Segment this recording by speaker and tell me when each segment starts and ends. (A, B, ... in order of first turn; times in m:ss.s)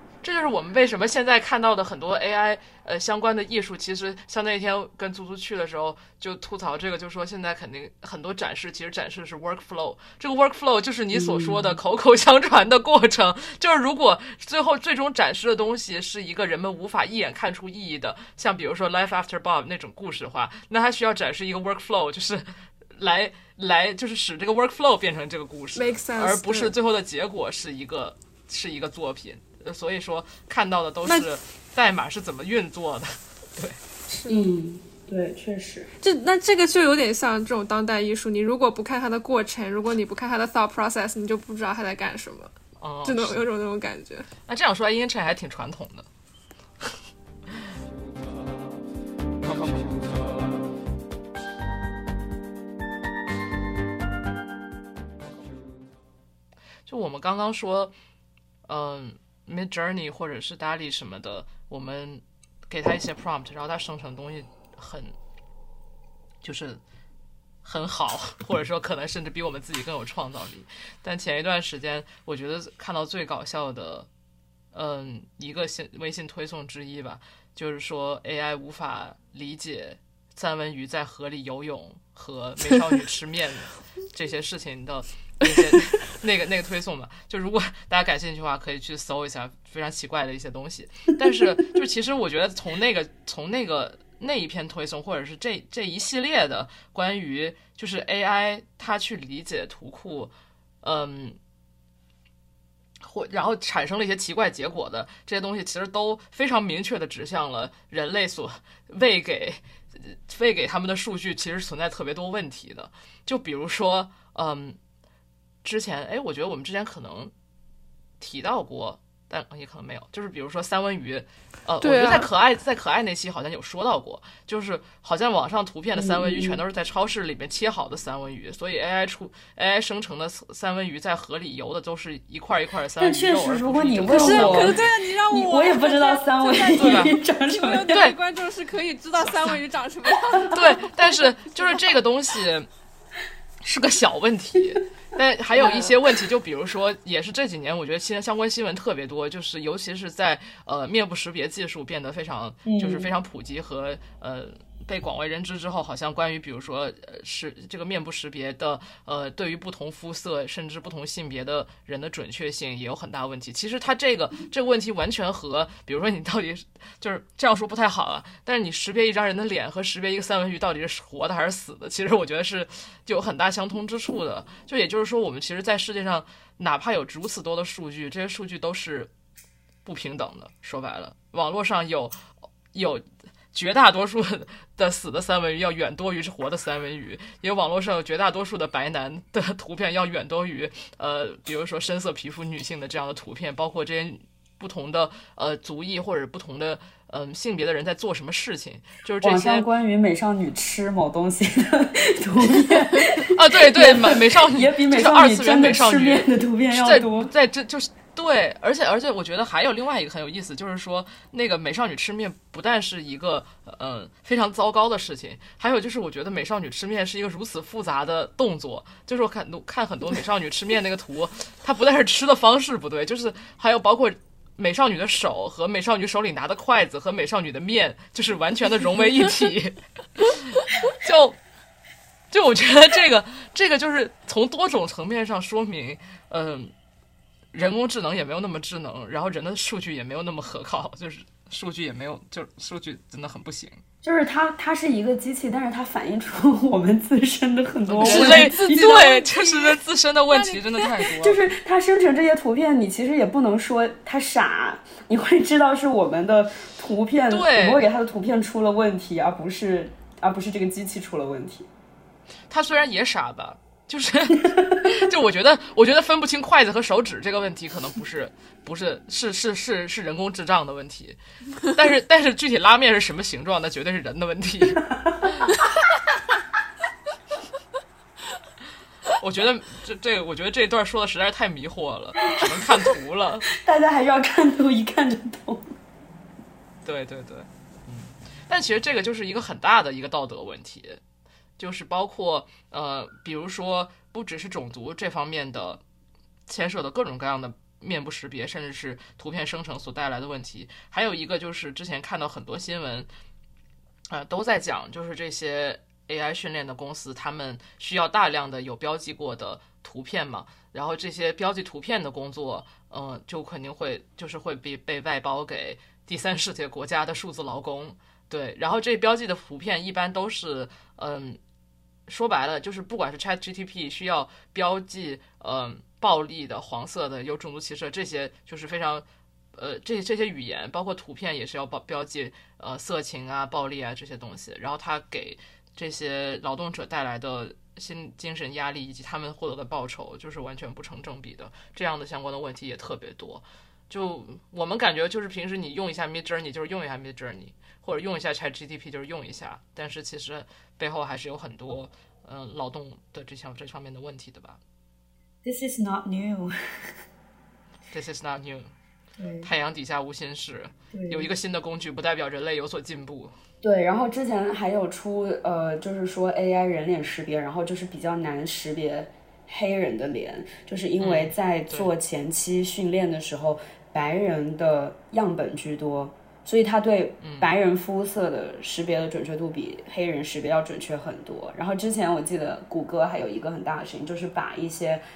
0:00.2-0:33.8 A
0:11.1-0:11.8 B
0:25.8-0:26.7 C
0:34.1-0:34.4 C
0:34.3-0:35.9 B
0:36.0-0:42.5 C
0:42.8-0:43.4 A
0:43.1-0:44.3 C
0:44.5-0:46.1 A
0:56.9-0:57.9 A
0:58.7-1:05.1 A
1:06.4-1:06.8 A
1:07.6-1:14.1 A
1:14.7-1:41.4 A
1:43.0-1:54.8 A
1:55.6-1:57.3 A
1:58.2-2:14.9 A
2:01.8-2:02.3 C
2:06.0-2:06.6 B
2:13.0-2:18.0 B
2:14.1-2:21.1 C
2:16.8-2:17.2 A
2:20.5-2:22.7 A
2:23.6-2:59.1 A
2:32.6-2:33.1 B
2:59.8-3:02.2 A
3:02.7-3:19.7 A
3:19.2-3:27.3 B
3:23.3-3:51.4 A
3:52.3-3:56.7 A
3:57.5-4:03.8 A
4:04.0-4:09.0 B
4:07.9-4:11.5 A
4:08.0-4:09.8 C
4:10.3-4:10.9 C
4:11.2-4:21.7 B
4:17.3-4:17.9 A
4:22.5-4:31.2 A
4:24.4-4:24.8 B
4:31.7-4:35.5 A
4:34.9-4:35.3 B
4:39.1-4:43.5 A
4:43.5-4:45.7 B
4:46.8-4:51.0 A
4:51.6-4:55.8 A
4:56.5-5:03.1 A
5:04.1-5:21.4 A
5:22.1-5:54.6 A
5:55.4-5:57.0 B
5:57.9-5:58.7 A
5:59.2-5:59.5 B
5:59.4-6:03.3 A
6:00.9-6:01.3 B
6:03.6-6:25.0 B
6:11.0-6:11.9 A
6:17.2-6:17.5 A